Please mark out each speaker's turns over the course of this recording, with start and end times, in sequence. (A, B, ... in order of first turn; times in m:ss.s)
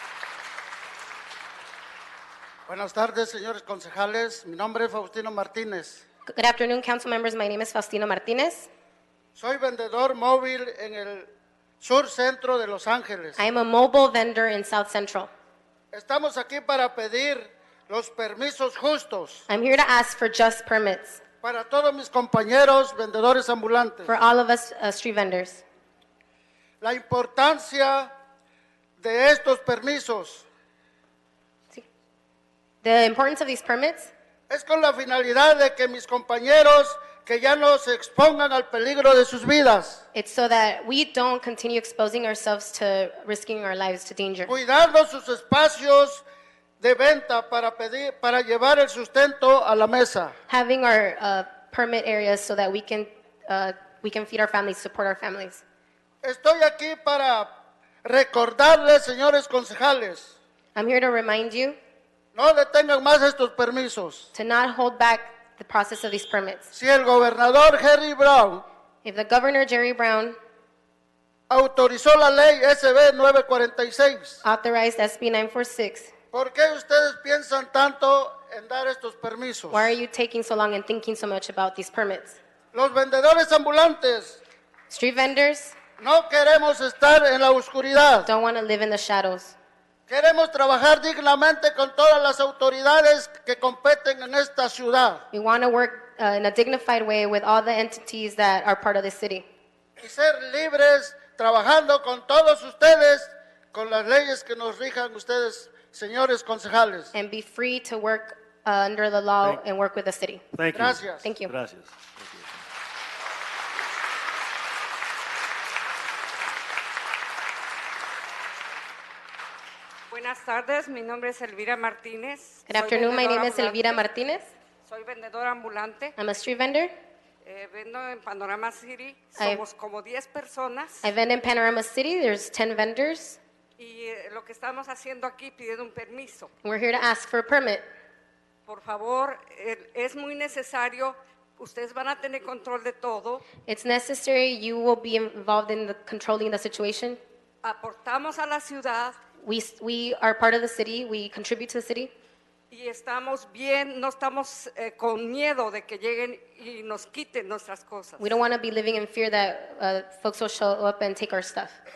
0:02.7-0:06.0 A
0:06.3-0:08.7 B
0:09.4-0:13.4 A
0:13.4-0:15.3 B
0:15.9-0:19.4 A
0:19.5-0:21.2 B
0:21.4-0:24.1 A
0:24.1-0:25.6 B
0:26.8-0:28.1 A
0:29.0-0:30.5 A
0:32.8-0:34.1 B
0:34.5-0:40.0 A
0:40.1-0:44.5 B
0:44.5-0:46.2 A
0:46.8-0:50.4 A
0:50.5-0:55.6 B
0:56.2-1:00.3 A
1:00.8-1:01.8 B
1:02.3-1:04.3 A
1:04.3-1:06.7 B
1:06.7-1:08.6 A
1:09.0-1:10.4 B
1:11.5-1:14.4 A
1:14.4-1:16.1 B
1:16.3-1:19.9 A
1:19.7-1:22.4 B
1:22.7-1:24.4 A
1:24.9-1:25.8 B
1:26.0-1:28.3 A
1:28.2-1:29.6 B
1:30.1-1:35.2 A
1:35.3-1:39.5 B
1:40.0-1:47.1 A
1:47.1-1:50.5 B
1:50.5-1:52.5 C
1:50.7-1:51.4 A
1:51.2-1:51.5 B
2:00.1-2:04.0 D
2:02.7-2:04.5 B
2:04.8-2:06.2 D
2:06.2-2:06.9 B
2:07.4-2:11.0 D
2:09.4-2:09.6 B
2:11.0-2:13.4 B
2:13.8-2:16.5 D
2:16.6-2:17.8 B
2:18.7-2:23.4 D
2:23.7-2:27.2 B
2:27.6-2:29.2 D
2:29.4-2:32.1 B
2:32.7-2:38.4 D
2:38.2-2:41.8 B